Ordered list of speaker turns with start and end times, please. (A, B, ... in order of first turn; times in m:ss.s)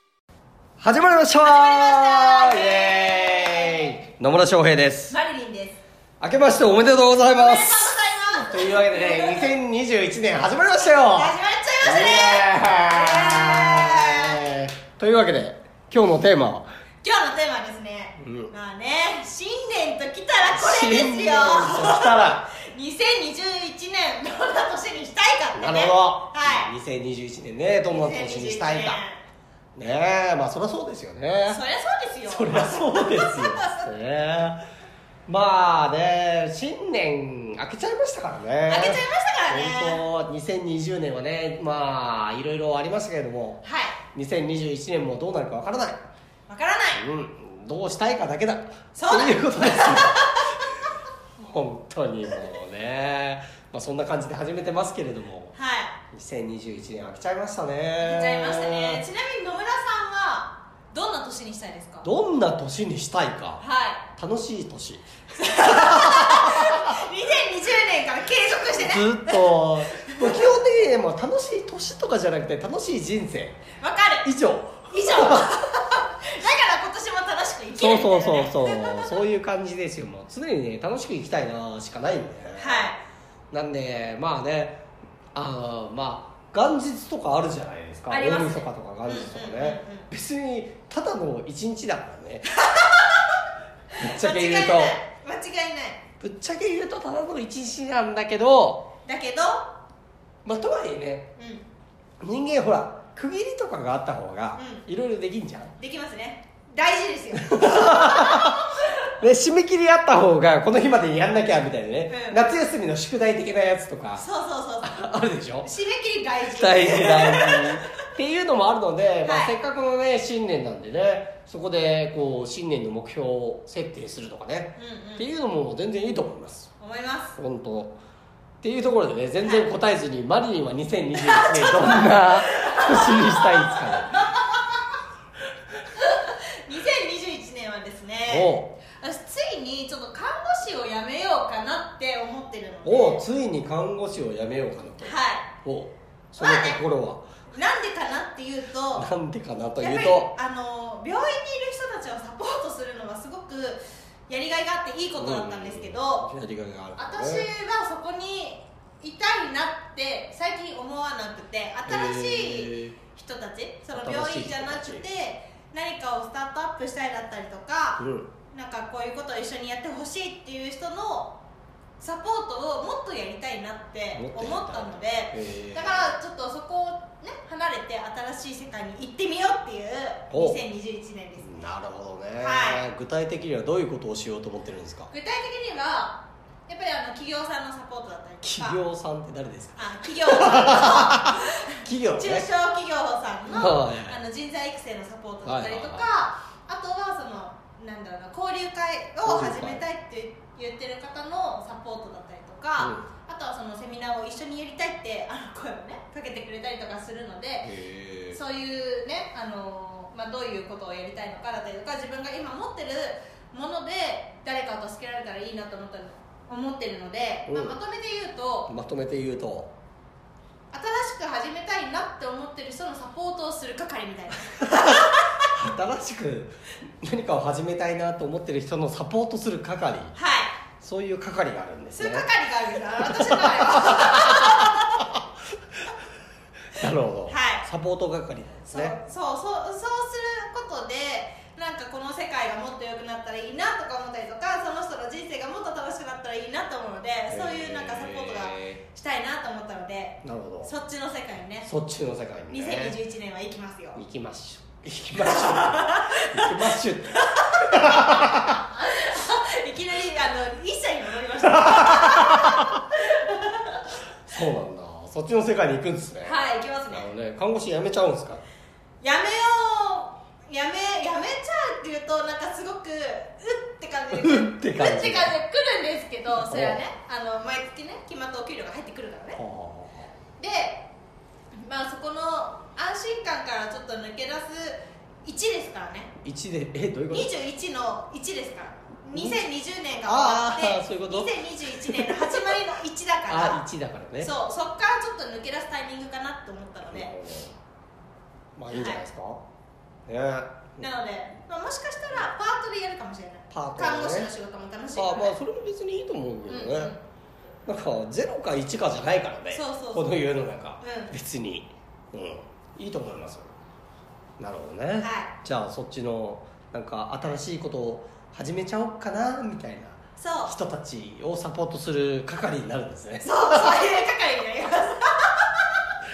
0:00.8-0:05.2 A
0:01.4-0:04.0 B
0:05.1-0:05.8 B
0:06.2-0:16.7 A
0:07.2-0:09.5 B
0:11.1-0:14.4 B
0:17.0-0:26.7 B
0:18.2-0:18.5 A
0:20.5-0:22.5 A
0:25.6-0:29.0 A
0:27.9-0:29.2 B
0:29.8-0:31.6 A
0:31.5-0:33.9 B
0:32.3-0:34.6 A
0:35.3-0:46.0 A
0:38.7-0:40.0 B
0:43.6-0:44.0 B
0:46.5-0:47.0 B
0:47.0-0:50.4 A
0:49.0-0:50.5 B
0:51.4-0:55.6 A
0:55.5-0:56.0 B
0:56.1-0:59.0 A
0:58.0-1:02.1 B
1:02.0-1:06.9 A
1:03.6-1:04.1 B
1:05.4-1:10.4 B
1:08.5-1:13.6 A
1:13.8-1:14.3 B
1:14.2-1:15.5 A
1:14.9-1:19.2 B
1:17.8-1:22.9 A
1:22.6-1:23.0 B
1:23.5-1:24.8 A
1:25.4-1:32.5 A
1:28.1-1:30.1 B
1:32.6-1:33.3 B
1:33.9-1:36.0 B
1:34.0-1:35.0 A
1:36.2-1:38.9 A
1:39.0-1:39.7 B
1:40.4-1:41.3 A
1:41.4-1:41.7 B
1:42.2-1:45.8 A
1:44.6-1:44.8 B
1:45.8-1:48.8 B
1:47.5-1:54.3 A
1:52.1-1:52.4 B
1:54.2-1:55.0 B
1:54.8-1:55.7 A
1:55.6-1:57.8 B
1:56.5-2:06.7 A
1:59.2-1:59.6 B
2:04.8-2:05.3 B
2:06.8-2:07.4 B
2:07.4-2:08.0 A
2:08.6-2:14.4 A
2:09.4-2:09.7 B
2:11.2-2:14.7 B
2:16.0-2:23.2 B
2:18.3-2:18.8 A
2:22.8-2:27.3 A
2:25.0-2:25.5 B
2:26.4-2:26.8 B
2:27.5-2:29.1 B
2:28.9-2:30.3 A
2:29.8-2:36.3 B
2:35.2-2:37.5 A
2:37.0-2:51.4 B
2:41.9-2:43.0 A
2:43.9-2:45.1 A
2:48.0-2:48.3 A
2:52.0-3:01.6 B
2:54.2-2:56.2 A
3:00.3-3:00.6 A
3:01.4-3:05.1 A
3:02.4-3:02.9 B
3:05.1-3:08.8 B
3:08.4-3:12.5 A
3:09.8-3:11.6 B
3:12.2-3:27.7 B
3:13.5-3:14.2 A
3:15.4-3:16.1 A
3:19.2-3:19.8 A
3:22.8-3:23.1 A
3:27.6-3:28.4 A
3:28.3-3:38.7 B
3:37.5-3:37.8 A
3:38.7-3:39.7 A
3:40.7-3:45.3 B
3:44.9-3:50.1 A
3:50.2-3:50.6 B
3:50.8-3:52.3 A
3:51.9-3:55.1 B
3:53.0-3:55.2 A
3:56.7-3:59.0 A
3:57.3-3:57.7 B
3:58.7-4:11.7 B
4:07.3-4:08.8 A
4:10.2-4:10.7 A
4:11.6-4:13.0 A
4:12.5-4:14.0 B
4:14.0-4:18.6 A
4:15.3-4:16.5 B
4:17.2-4:23.8 B
4:21.5-4:22.8 A
4:24.2-4:28.4 A
4:26.2-4:27.1 B
4:29.0-4:39.4 B
4:34.1-4:35.4 A
4:36.3-4:36.8 A
4:39.3-4:40.2 A
4:40.4-4:40.9 B
4:41.6-4:46.1 B
4:46.2-4:47.3 A
4:47.1-4:53.6 B
4:49.1-4:49.5 A
4:50.0-4:51.3 A
4:51.8-4:52.5 A
4:53.3-4:54.3 A
4:54.2-4:57.1 B
4:56.9-4:57.6 A
4:58.6-4:59.4 A
4:58.7-4:59.0 B
5:00.1-5:00.9 A
5:00.8-5:05.3 B
5:03.5-5:04.3 A
5:05.0-5:06.9 A
5:06.5-5:07.0 B
5:07.7-5:13.5 A
5:09.5-5:10.1 B
5:10.8-5:11.1 B
5:14.4-5:23.7 A
5:15.0-5:15.3 B
5:20.2-5:20.6 B
5:23.2-5:25.8 B